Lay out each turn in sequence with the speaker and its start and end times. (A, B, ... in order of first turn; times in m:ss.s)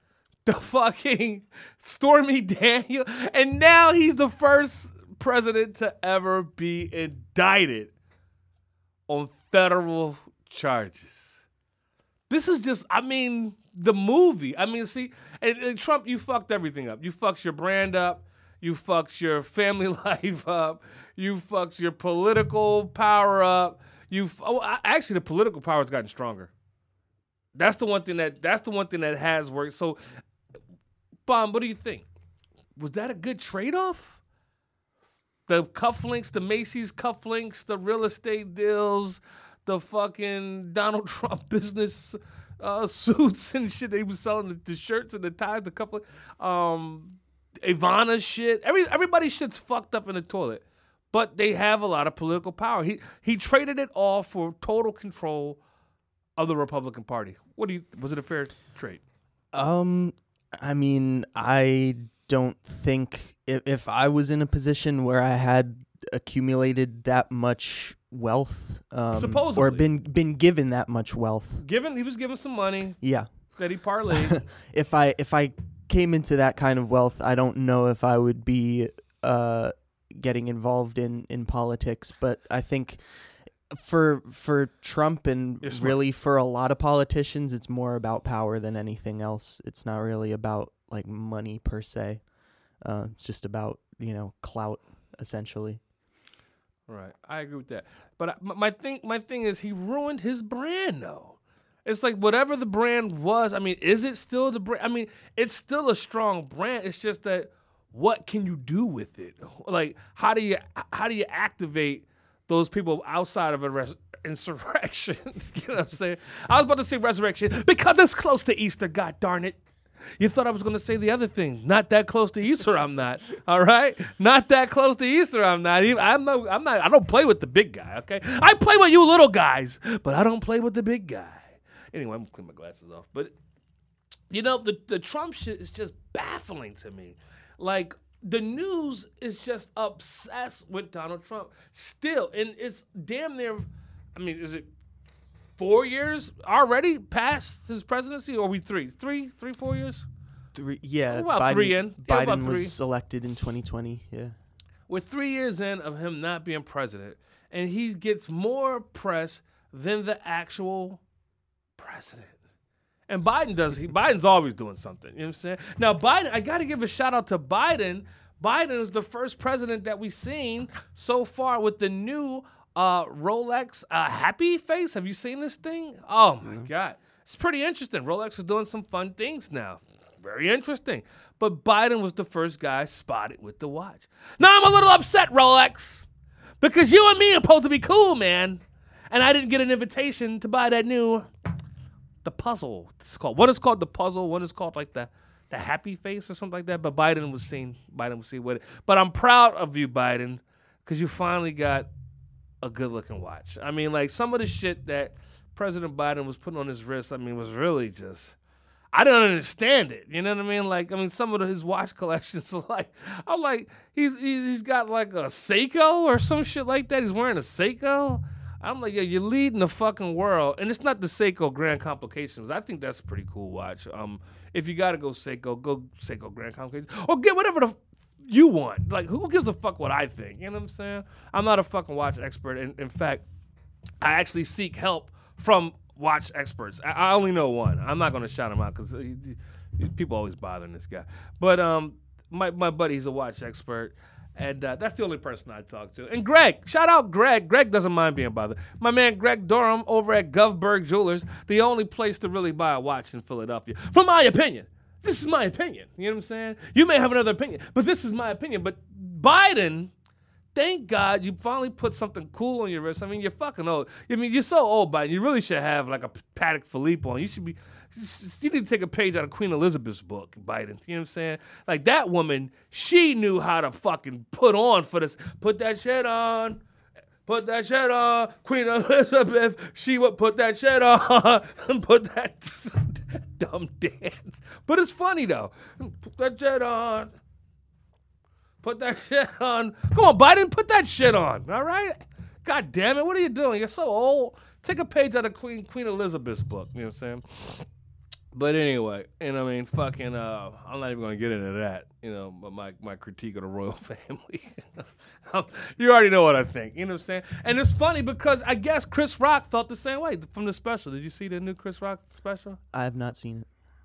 0:00.5-0:07.9 A
0:09.1-0:11.4 A
0:12.3-0:26.5 A
0:27.6-0:30.0 A
0:31.3-0:32.1 A
0:32.8-0:34.2 A
0:35.5-0:55.6 A
0:56.4-0:59.0 A
0:59.5-1:11.6 B
1:09.1-1:09.9 A
1:11.6-1:13.0 A
1:13.0-1:13.3 B
1:13.6-1:14.5 A
1:14.1-1:32.2 B
1:25.6-1:26.0 A
1:32.8-1:35.8 B
1:36.9-1:59.6 A
2:00.2-2:13.4 A
2:14.3-2:24.7 A
2:25.6-2:30.1 A
2:30.5-2:34.4 B
2:31.1-2:32.8 A
2:34.9-2:41.0 A
2:41.8-2:42.4 A
2:43.1-3:06.1 A
3:06.6-3:11.3 A
3:12.2-3:21.9 A
3:22.6-3:28.4 A
3:28.9-3:53.3 A
3:54.0-4:19.9 A
4:20.6-4:36.6 A
4:37.3-4:47.1 A
4:48.6-4:57.7 A
4:58.3-5:12.6 A
5:12.7-5:13.5 B